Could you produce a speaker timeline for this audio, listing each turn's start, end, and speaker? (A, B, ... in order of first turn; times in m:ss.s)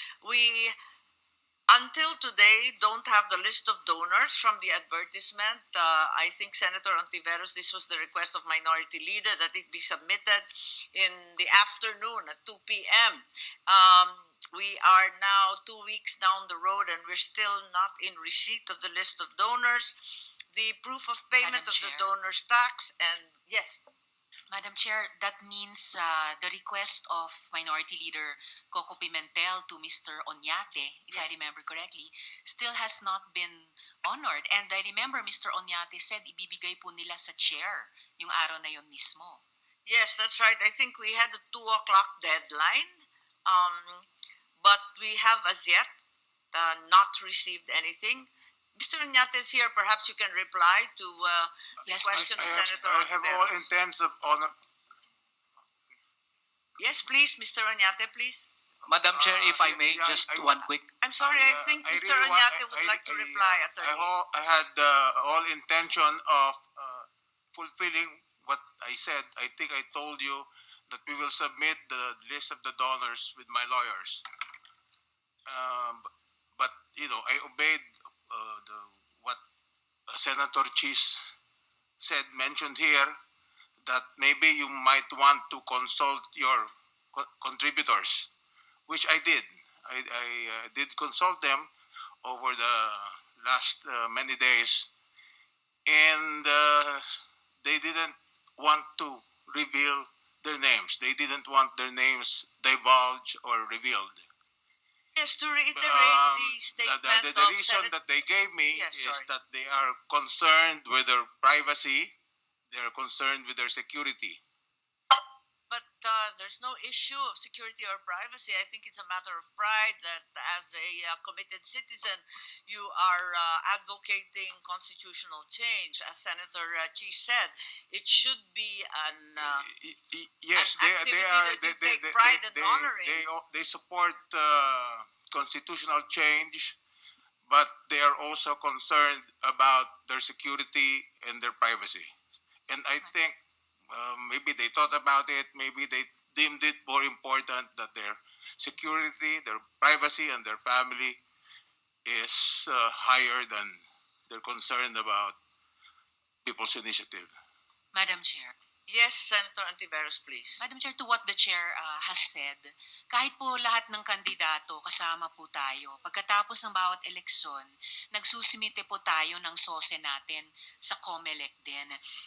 0:00.2-0:00.7 A
0:01.7-0:23.9 A
0:21.4-0:22.1 B
0:24.5-0:39.4 B
0:39.8-0:44.0 A
0:44.6-0:45.9 A
0:46.5-0:53.7 A
0:51.9-0:52.8 B
0:52.1-0:54.5 C
0:56.8-0:58.5 A
0:58.8-1:00.9 D
0:59.1-1:00.5 C
1:01.0-1:04.1 A
1:01.2-1:14.2 C
1:15.5-1:19.4 C
1:20.1-1:21.2 C
1:22.0-1:23.2 C
1:23.8-1:28.3 C
1:28.9-1:31.7 C
1:32.2-1:34.9 C
1:35.9-1:44.2 C
1:45.2-1:47.9 A
1:45.7-1:52.1 C
1:48.7-1:49.3 A
1:52.7-1:54.4 C
1:55.7-2:09.7 A
2:09.4-2:16.8 C
2:10.5-2:13.2 A
2:17.5-2:22.1 C
2:22.7-2:23.4 C
2:23.9-2:31.2 C
2:32.0-2:35.4 C
2:36.4-2:37.3 C
2:37.9-2:38.6 B
2:38.9-2:40.6 A
2:40.6-2:52.0 B